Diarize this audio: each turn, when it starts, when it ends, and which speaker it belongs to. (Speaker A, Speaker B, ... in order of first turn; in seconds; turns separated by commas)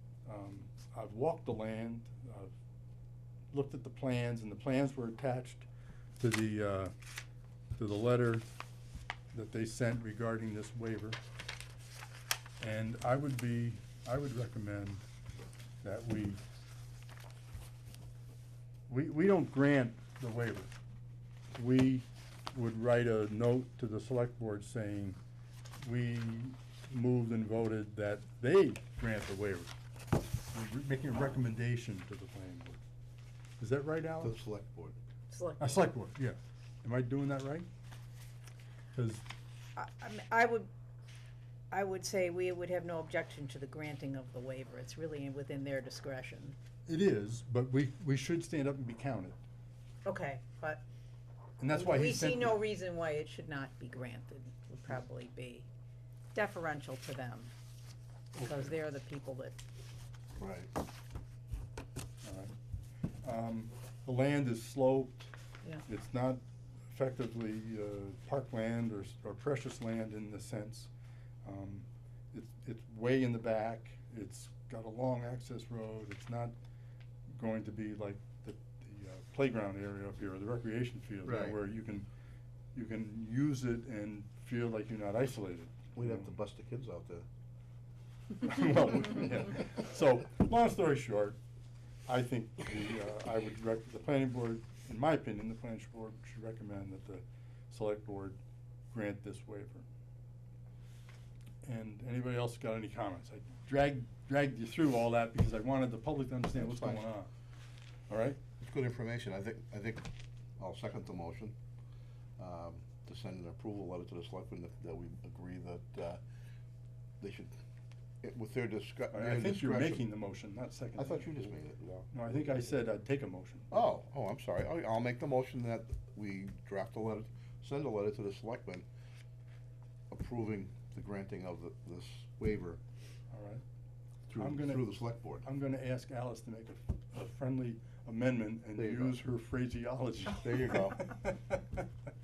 Speaker A: 0.2-2.5, Speaker A: 3.5-5.7, Speaker A: 6.2-6.9, Speaker A: 7.7-8.4, Speaker A: 9.3-11.2, Speaker A: 12.6-15.0, Speaker A: 15.8-16.4, Speaker A: 18.9-20.7, Speaker A: 21.5-25.2, Speaker A: 25.8-29.7, Speaker A: 30.5-32.8, Speaker A: 33.6-34.3, Speaker B: 34.2-35.0, Speaker C: 35.3-35.8, Speaker A: 35.6-37.7, Speaker A: 39.0-39.2, Speaker C: 39.8-40.7, Speaker C: 41.7-46.5, Speaker A: 46.9-49.4, Speaker C: 50.0-50.8, Speaker A: 51.6-52.5, Speaker C: 51.7-55.7, Speaker C: 56.3-57.5, Speaker A: 58.4-58.7, Speaker C: 58.4-59.6, Speaker B: 60.4-60.7, Speaker A: 62.2-62.5, Speaker A: 63.2-65.3, Speaker A: 65.8-70.9, Speaker A: 71.4-76.5, Speaker A: 77.3-82.1, Speaker B: 81.2-81.6, Speaker A: 82.7-86.3, Speaker B: 85.9-87.3, Speaker A: 88.4-91.4, Speaker A: 92.1-98.4, Speaker A: 98.9-99.9, Speaker A: 101.6-107.3, Speaker B: 106.5-107.0, Speaker A: 108.1-108.4, Speaker B: 108.6-111.6, Speaker B: 112.4-116.2, Speaker B: 117.2-117.6, Speaker B: 118.2-120.0, Speaker A: 119.1-121.3, Speaker B: 121.0-122.1, Speaker A: 122.1-123.9, Speaker B: 123.7-128.9, Speaker B: 130.1-132.8, Speaker A: 133.3-133.6, Speaker B: 134.3-135.4, Speaker A: 134.4-141.9, Speaker B: 138.8-139.2, Speaker B: 140.3-141.1